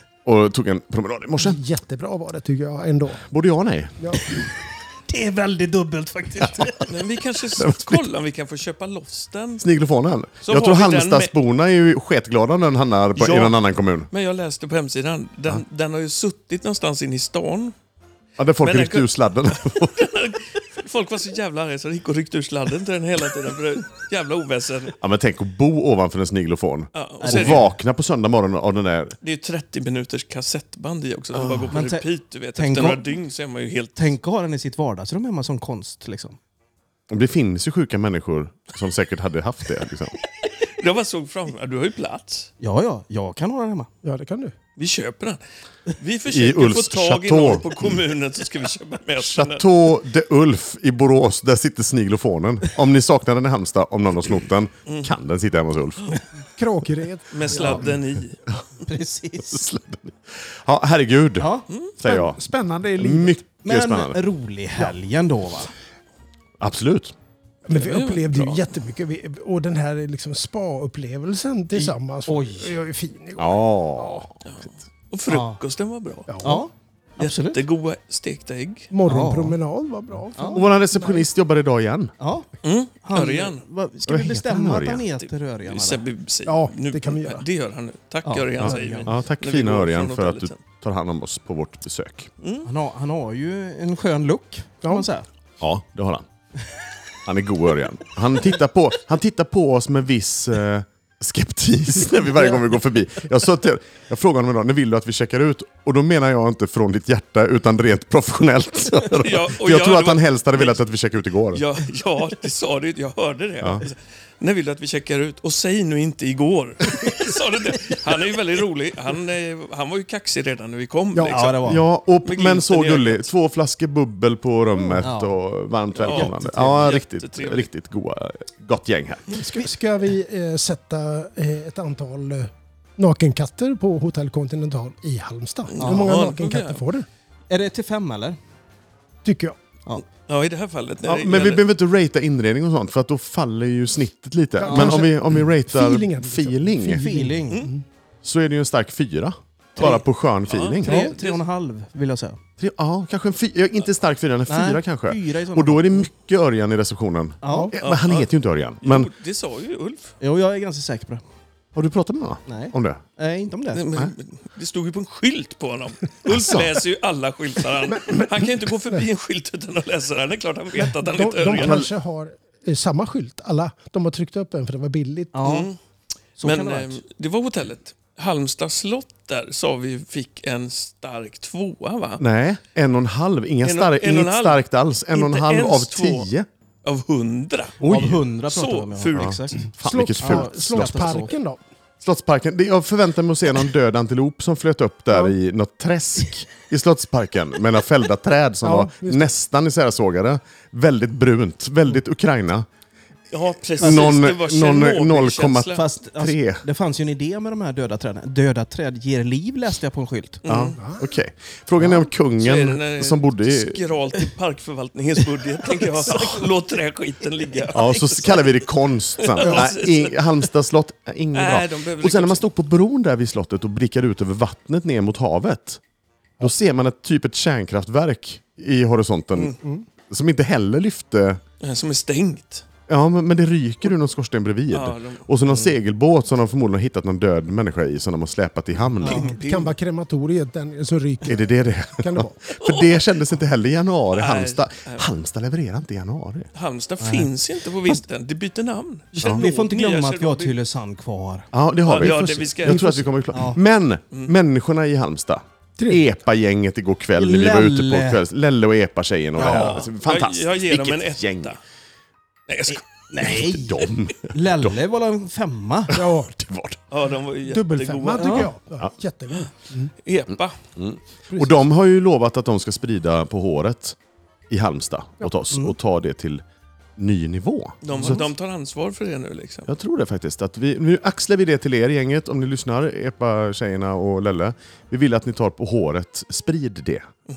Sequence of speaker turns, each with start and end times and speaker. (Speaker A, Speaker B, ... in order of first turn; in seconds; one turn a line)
Speaker A: 0.2-1.6
Speaker B: 1.4-3.2
Speaker A: 3.2-4.1
Speaker B: 4.0-4.4
Speaker C: 5.1-6.9
Speaker A: 6.4-6.8
Speaker D: 6.8-9.7
Speaker A: 7.6-8.1
Speaker A: 9.6-14.1
Speaker D: 10.4-11.3
Speaker D: 13.2-13.6
Speaker D: 14.1-17.7
Speaker A: 18.4-20.1
Speaker D: 18.6-19.1
Speaker D: 19.7-24.9
Speaker A: 25.0-29.2
Speaker D: 26.9-27.6
Speaker C: 27.2-27.7
Speaker D: 29.2-34.1
Speaker C: 31.4-33.0
Speaker C: 34.0-36.4
Speaker A: 37.1-40.1
Speaker D: 40.4-42.5
Speaker C: 42.6-43.9
Speaker B: 44.0-44.5
Speaker D: 44.8-45.4
Speaker D: 46.0-49.7
Speaker A: 46.3-48.0
Speaker A: 49.2-56.2
Speaker D: 54.9-55.1
Speaker B: 56.6-57.8
Speaker D: 57.3-58.4
Speaker C: 57.5-57.9
Speaker A: 57.6-57.9
Speaker C: 58.8-59.6
Speaker A: 59.4-64.2
Speaker C: 61.4-61.6
Speaker B: 62.0-63.4
Speaker C: 63.6-65.7
Speaker A: 66.6-67.1
Speaker B: 67.7-74.2
Speaker D: 67.7-68.5
Speaker C: 71.7-72.7
Speaker A: 73.4-74.3
Speaker D: 74.4-76.4
Speaker C: 75.3-75.6
Speaker B: 76.3-76.6
Speaker C: 76.4-77.6
Speaker D: 77.2-78.9
Speaker B: 78.9-81.2
Speaker C: 79.0-79.5
Speaker C: 80.3-80.7
Speaker A: 80.5-82.1
Speaker C: 82.2-82.5
Speaker D: 82.6-83.6
Speaker C: 83.0-86.0
Speaker A: 84.0-85.0
Speaker D: 85.6-90.6
Speaker B: 86.5-87.4
Speaker C: 88.2-89.1
Speaker A: 88.6-92.3
Speaker D: 92.4-92.7
Speaker C: 92.6-95.2
Speaker B: 94.8-95.1
Speaker A: 95.6-96.2
Speaker A: 97.2-111.6
Speaker D: 109.1-110.8
Speaker D: 111.5-121.6
Speaker C: 121.2-121.8
Speaker A: 121.7-129.3
Speaker D: 122.2-123.3
Speaker C: 125.0-125.3
Speaker D: 126.0-127.7
Speaker C: 126.0-126.8
Speaker B: 129.3-137.1
Speaker D: 135.7-136.8
Speaker C: 135.8-136.1
Speaker C: 137.5-138.4
Speaker B: 139.2-139.6
Speaker D: 140.3-141.7
Speaker A: 141.0-147.1
Speaker C: 144.6-145.1
Speaker B: 144.6-147.8
Speaker C: 147.0-147.7
Speaker A: 148.2-151.1
Speaker D: 149.8-151.4
Speaker C: 150.8-152.4
Speaker A: 152.6-159.1
Speaker C: 154.5-156.0
Speaker C: 157.4-157.7
Speaker B: 157.5-157.7
Speaker D: 157.8-158.3
Speaker D: 158.8-160.1
Speaker C: 160.2-161.2
Speaker A: 161.7-163.0
Speaker C: 162.4-163.8
Speaker D: 163.7-171.9
Speaker A: 166.2-166.7
Speaker B: 167.9-169.1
Speaker B: 170.8-175.3
Speaker A: 171.5-171.9
Speaker C: 175.3-175.7
Speaker D: 175.4-175.8
Speaker C: 176.4-177.0
Speaker D: 176.4-182.2
Speaker A: 182.2-186.5
Speaker D: 183.6-186.3
Speaker D: 186.8-187.8
Speaker A: 187.8-188.2
Speaker C: 187.8-191.3
Speaker D: 188.5-189.5
Speaker A: 189.2-191.2
Speaker B: 189.7-191.6
Speaker A: 192.0-202.7
Speaker B: 198.6-199.3
Speaker D: 203.3-205.8
Speaker A: 203.8-206.6
Speaker C: 205.7-210.4
Speaker D: 210.4-210.8
Speaker A: 210.4-213.8
Speaker D: 212.4-218.6
Speaker A: 217.7-225.8
Speaker D: 219.2-220.4
Speaker B: 219.4-219.7
Speaker D: 221.3-222.4
Speaker A: 226.4-229.6
Speaker A: 230.1-231.4
Speaker D: 231.6-232.6
Speaker A: 232.9-239.3
Speaker D: 234.7-235.7
Speaker C: 239.0-239.3
Speaker D: 239.0-239.8
Speaker B: 239.3-242.4
Speaker A: 241.2-246.5
Speaker D: 242.5-243.1
Speaker D: 244.1-245.1
Speaker D: 246.5-250.5
Speaker C: 247.0-247.3
Speaker A: 249.2-249.4
Speaker C: 249.2-251.5
Speaker A: 251.5-261.6
Speaker D: 251.9-253.0
Speaker C: 252.7-253.6
Speaker C: 257.1-258.2
Speaker C: 259.4-259.9
Speaker D: 259.4-261.6
Speaker D: 262.5-262.8
Speaker C: 262.7-265.9
Speaker A: 263.2-264.7
Speaker A: 265.9-266.8
Speaker B: 265.9-266.3
Speaker D: 266.9-268.5
Speaker B: 267.4-269.9
Speaker C: 268.2-268.5
Speaker D: 270.0-270.6
Speaker A: 270.3-274.0
Speaker B: 271.3-271.6
Speaker A: 274.5-276.4
Speaker A: 277.0-278.3
Speaker D: 277.8-279.7
Speaker C: 277.9-278.1
Speaker A: 279.6-287.1